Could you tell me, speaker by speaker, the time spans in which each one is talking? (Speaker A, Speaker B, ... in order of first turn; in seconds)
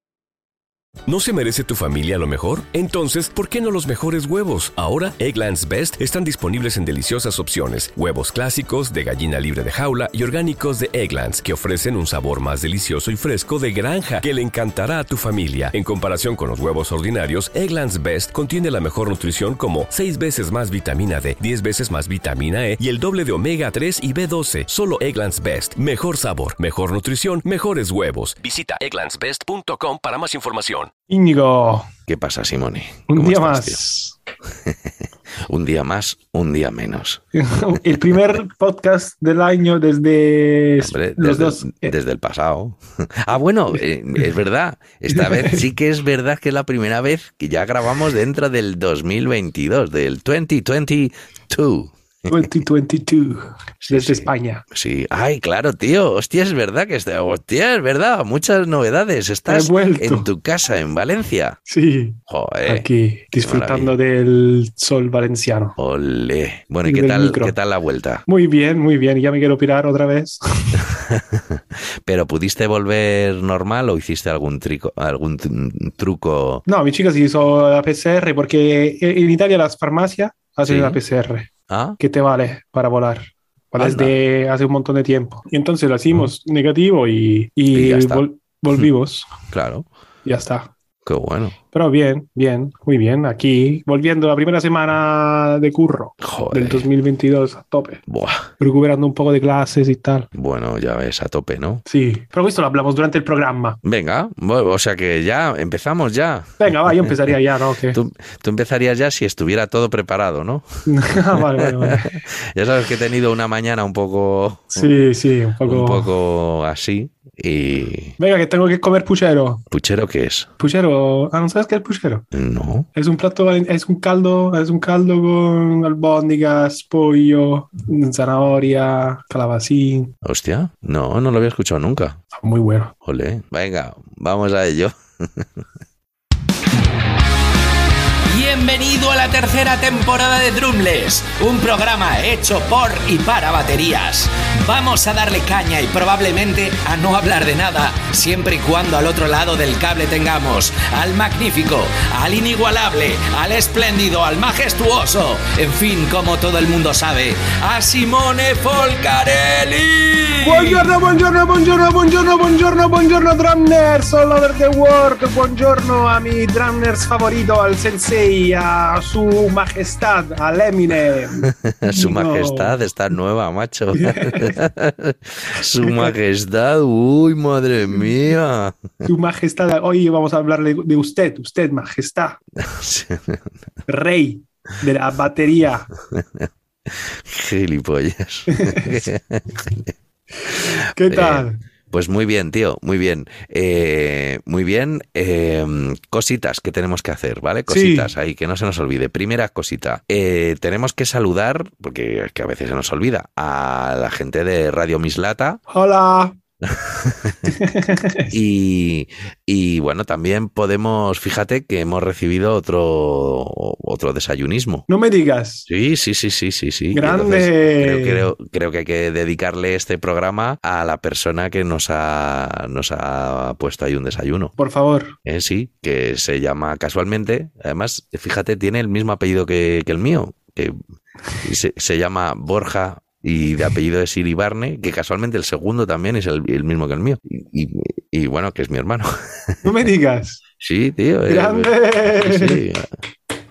Speaker A: 1.1-30.9
Speaker B: 31.1-31.9, 33.1-34.1, 37.3-41.9, 45.1-45.6, 52.3-54.6, 59.5-60.3, 61.7-65.8, 66.8-67.5, 68.3-70.8, 76.7-89.3, 90.2-90.7, 91.7-98.0, 98.6-100.3, 101.8-103.8, 106.6-108.0, 110.8-112.1, 114.7-116.1, 118.2-119.6, 120.6-122.2, 122.9-130.1, 132.3-132.9, 160.4-172.7, 173.9-174.6, 175.8-176.2, 179.0-182.4, 183.9-185.9, 188.5-189.0, 190.6-191.6, 197.7-198.1, 205.7-206.3, 207.5-208.3, 214.9-215.7, 216.9-218.3, 224.6-225.2, 239.6-240.4, 241.3-242.6
Speaker C: 32.1-33.8, 35.5-37.2, 40.8-51.9, 53.8-61.6, 62.3-62.9, 63.4-64.0, 65.8-68.2, 70.9-76.6, 80.6-81.0, 81.7-82.0, 83.8-84.1, 87.7-88.2, 89.5-89.9, 91.0-91.5, 96.2-96.9, 98.1-98.5, 100.3-101.8, 103.8-107.0, 107.9-110.7, 111.3-115.0, 115.6-118.1, 119.7-120.5, 122.3-122.9, 130.2-132.2, 133.0-135.4, 171.4-178.8, 182.6-183.4, 186.1-186.5, 187.2-189.9, 190.5-205.6, 206.6-207.5, 208.3-214.8, 215.7-224.5, 225.2-230.8, 231.4-239.8, 240.6-242.8
Speaker D: 138.3-160.9